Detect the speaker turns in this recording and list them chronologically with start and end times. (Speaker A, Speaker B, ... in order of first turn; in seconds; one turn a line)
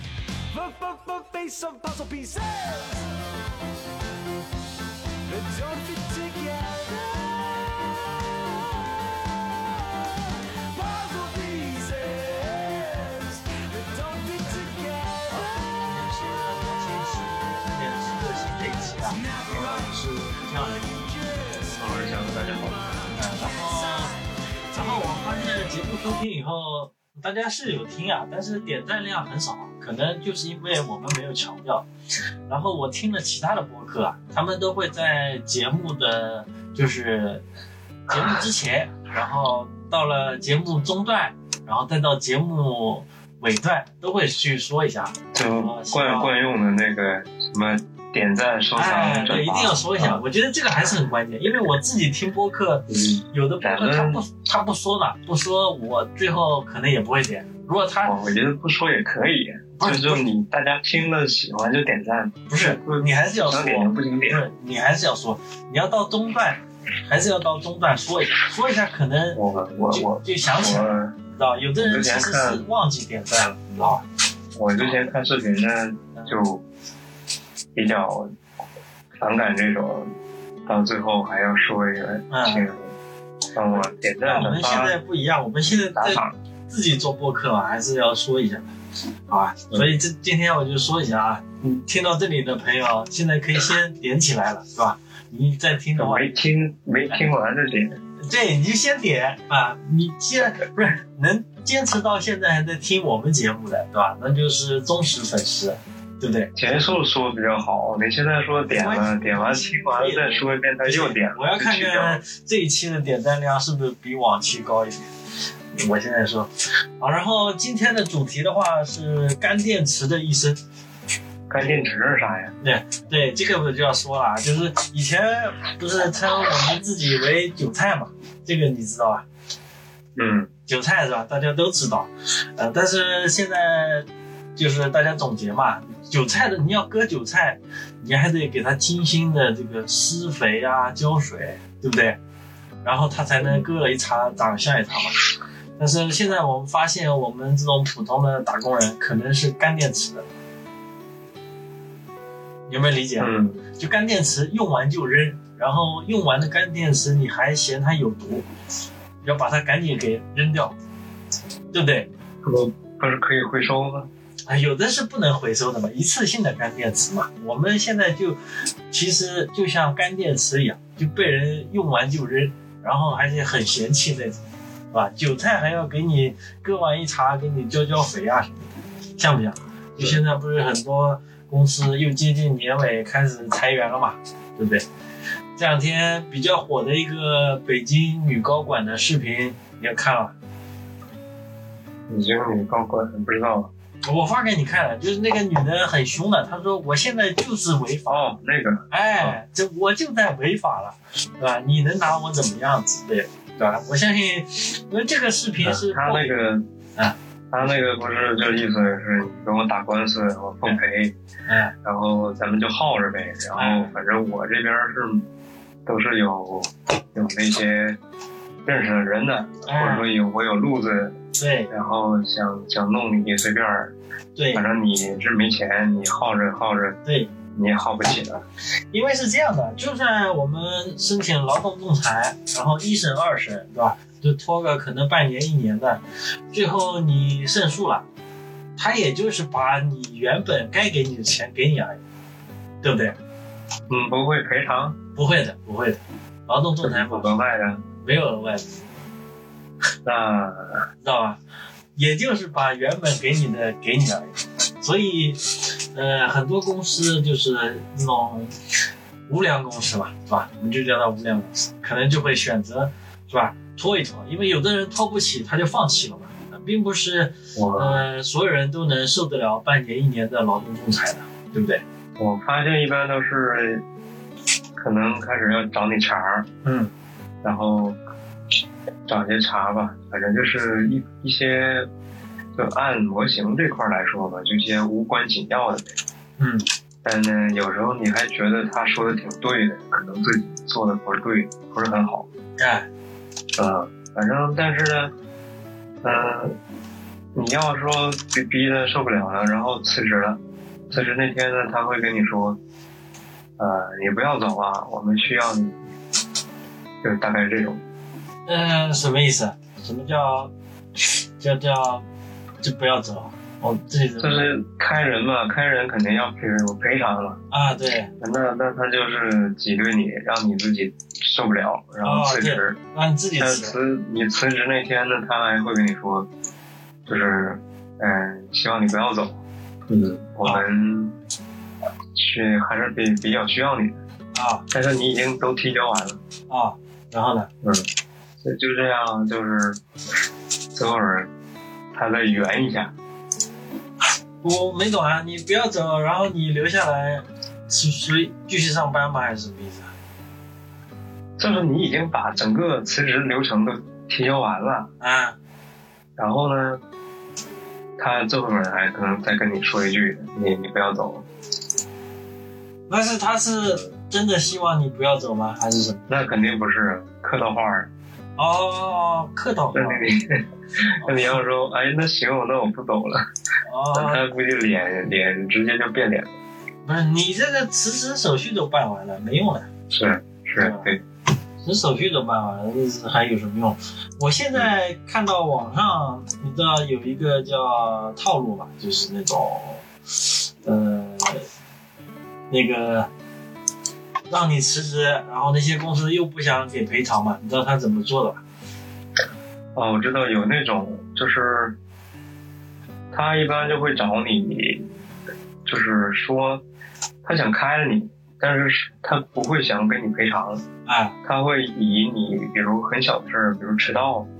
Speaker A: 0.5-3.2
Speaker A: 5.3-8.9
Speaker A: 10.7-17.4
Speaker B: 15.8-21.0
Speaker A: 19.0-24.2
Speaker C: 21.8-22.8
Speaker B: 23.1-24.1
Speaker B: 24.7-31.9
Speaker A: 24.8-25.1
Speaker B: 32.5-37.4
Speaker C: 38.1-38.4
Speaker B: 38.1-46.3
Speaker C: 45.3-50.2
Speaker B: 48.8-58.1
Speaker C: 52.9-54.2
Speaker C: 58.0-64.4
Speaker B: 59.8-60.3
Speaker B: 62.5-69.4
Speaker C: 69.3-71.1
Speaker B: 69.9-74.0
Speaker C: 71.8-72.6
Speaker C: 74.5-76.6
Speaker C: 77.7-78.3
Speaker C: 79.2-80.1
Speaker C: 80.7-82.9
Speaker B: 82.3-82.7
Speaker C: 83.5-84.9
Speaker B: 84.2-88.7
Speaker C: 85.9-86.3
Speaker B: 89.3-96.4
Speaker C: 96.0-98.0
Speaker B: 98.2-106.5
Speaker C: 106.5-112.2
Speaker B: 108.7-115.0
Speaker B: 115.7-116.5
Speaker B: 117.0-120.6
Speaker C: 121.5-122.5
Speaker B: 122.6-129.2
Speaker C: 130.2-130.5
Speaker B: 130.7-142.2
Speaker B: 142.8-145.2
Speaker B: 145.8-150.3
Speaker B: 152.7-158.4
Speaker C: 153.2-153.6
Speaker B: 159.2-160.7
Speaker B: 161.7-162.1
Speaker C: 162.4-164.1
Speaker B: 164.5-168.4
Speaker B: 168.9-174.4
Speaker B: 174.9-178.7
Speaker B: 179.2-184.8
Speaker B: 185.6-190.3
Speaker C: 192.1-193.7
Speaker B: 194.1-198.2
Speaker C: 198.1-199.4
Speaker B: 198.9-206.4
Speaker C: 205.6-206.6
Speaker C: 207.5-211.1
Speaker B: 211.5-211.7
Speaker C: 211.8-215.2
Speaker B: 213.5-213.9
Speaker C: 215.8-218.0
Speaker C: 218.6-221.1
Speaker B: 219.7-220.1
Speaker B: 221.4-221.7
Speaker C: 221.7-223.9
Speaker B: 224.3-224.7
Speaker C: 224.5-227.0
Speaker B: 227.0-227.3
Speaker C: 227.5-228.4
Speaker B: 228.9-238.0
Speaker B: 238.8-242.0
Speaker B: 242.8-243.1
Speaker C: 243.9-245.0
Speaker B: 245.2-247.3
Speaker C: 246.8-247.8
Speaker B: 248.0-248.6
Speaker C: 250.0-250.8
Speaker B: 251.0-251.4
Speaker B: 251.9-258.5
Speaker B: 259.3-271.8
Speaker C: 267.5-268.0
Speaker C: 272.2-273.8
Speaker C: 274.8-276.5
Speaker B: 276.6-276.9
Speaker C: 277.4-278.0
Speaker C: 279.1-281.9
Speaker C: 282.5-285.8
Speaker B: 286.4-286.6
Speaker C: 287.0-292.2
Speaker B: 292.6-292.9
Speaker C: 293.6-295.1
Speaker C: 296.0-296.6
Speaker C: 297.3-300.4
Speaker C: 300.9-302.6
Speaker C: 303.6-305.8
Speaker C: 307.0-307.8
Speaker B: 308.5-312.0
Speaker B: 312.6-314.4
Speaker C: 314.2-317.4
Speaker B: 317.5-318.1
Speaker C: 318.2-322.8
Speaker B: 322.0-323.7
Speaker C: 323.4-326.3
Speaker C: 327.1-331.1
Speaker C: 332.1-334.0
Speaker B: 334.3-334.6
Speaker C: 334.7-336.2
Speaker B: 336.5-337.5
Speaker C: 337.6-337.9
Speaker C: 338.4-339.8
Speaker C: 340.7-341.3
Speaker C: 341.9-342.9
Speaker B: 344.4-349.9
Speaker C: 351.4-354.9
Speaker B: 355.0-355.4
Speaker C: 356.2-356.8
Speaker C: 358.0-361.2
Speaker B: 362.9-366.1
Speaker C: 366.1-367.9
Speaker B: 368.4-370.1
Speaker C: 369.7-373.2
Speaker B: 371.0-371.4
Speaker B: 373.6-374.2
Speaker C: 373.9-376.3
Speaker B: 376.8-379.7
Speaker C: 379.9-381.0
Speaker B: 380.6-380.9
Speaker B: 381.6-391.4
Speaker B: 392.5-393.1
Speaker B: 394.3-398.4
Speaker C: 399.7-401.8
Speaker C: 403.1-404.9
Speaker C: 405.6-406.6
Speaker C: 407.2-410.6
Speaker B: 410.9-411.1
Speaker C: 411.2-414.3